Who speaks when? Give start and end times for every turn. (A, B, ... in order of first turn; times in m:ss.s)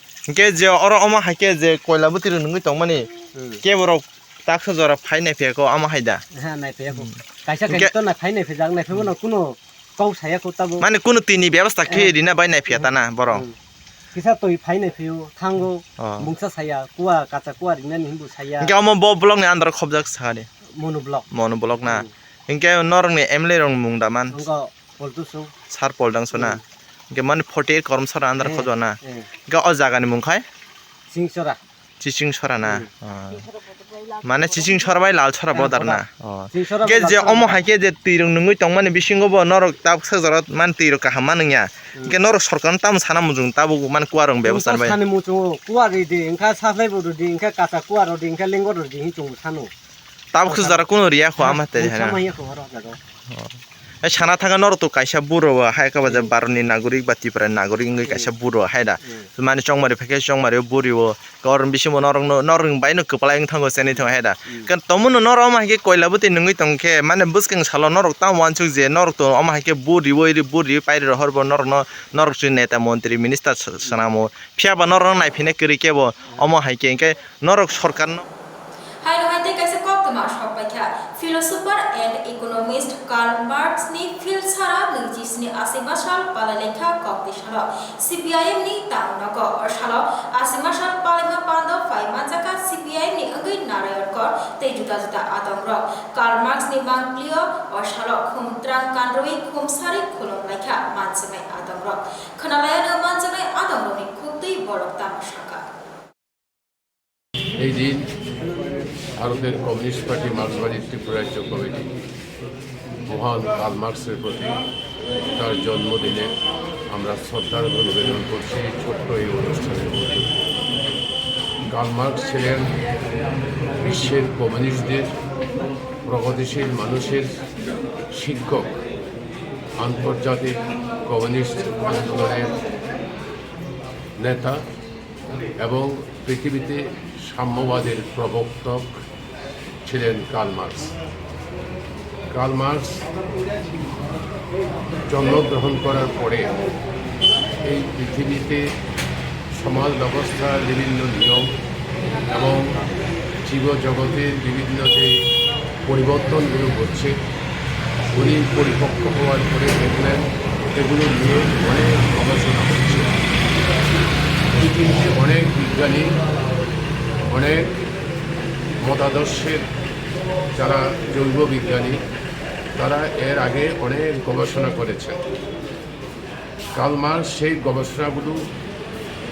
0:00.3-0:03.1 A
0:03.4-0:03.6 B
0:03.6-0:06.2 A
0:06.4-0:10.8 B
0:10.8-0:13.4 A
0:11.9-0:12.1 B
0:12.7-0:13.6 B
0:14.1-0:18.7 B
0:16.0-0:16.3 A
0:18.6-0:20.5 A
0:20.8-0:21.3 B
0:21.3-0:24.4 A
0:24.3-0:25.5 B
0:25.7-0:29.0 A
0:26.3-0:26.6 B
0:28.4-0:29.3 B
0:29.5-0:30.4 A
0:31.1-0:31.6 B
0:32.0-0:33.5 A
0:32.6-0:32.9 B
0:34.2-0:45.0 A
0:35.5-0:37.6 B
0:44.4-0:49.7 B
0:50.3-0:52.2 A
0:50.5-0:50.8 B
0:51.4-0:53.0 B
0:53.3-1:18.2 A
0:56.1-0:56.3 B
1:03.9-1:04.7 B
1:19.0-1:45.6 C
1:47.6-1:48.0 D
1:49.2-1:51.9 D
1:53.1-1:54.6 D
1:55.4-1:56.3 D
1:56.9-2:00.3 D
2:01.7-2:02.6 D
2:03.8-2:05.1 D
2:06.1-2:07.3 D
2:08.2-2:08.7 D
2:09.8-2:12.6 D
2:14.2-2:14.6 D
2:15.6-2:18.9 D
2:19.9-2:20.9 D
2:22.3-2:22.9 D
2:25.1-2:26.5 D
2:27.7-2:28.6 D
2:29.5-2:31.4 D
2:32.3-2:32.6 D
2:33.4-2:35.1 D
2:35.9-2:37.1 D
2:38.1-2:43.1 D
2:44.6-2:46.1 D
2:47.3-2:47.6 D
2:48.8-2:49.6 D
2:50.6-2:52.0 D
2:52.8-2:55.2 D
2:56.8-2:58.4 D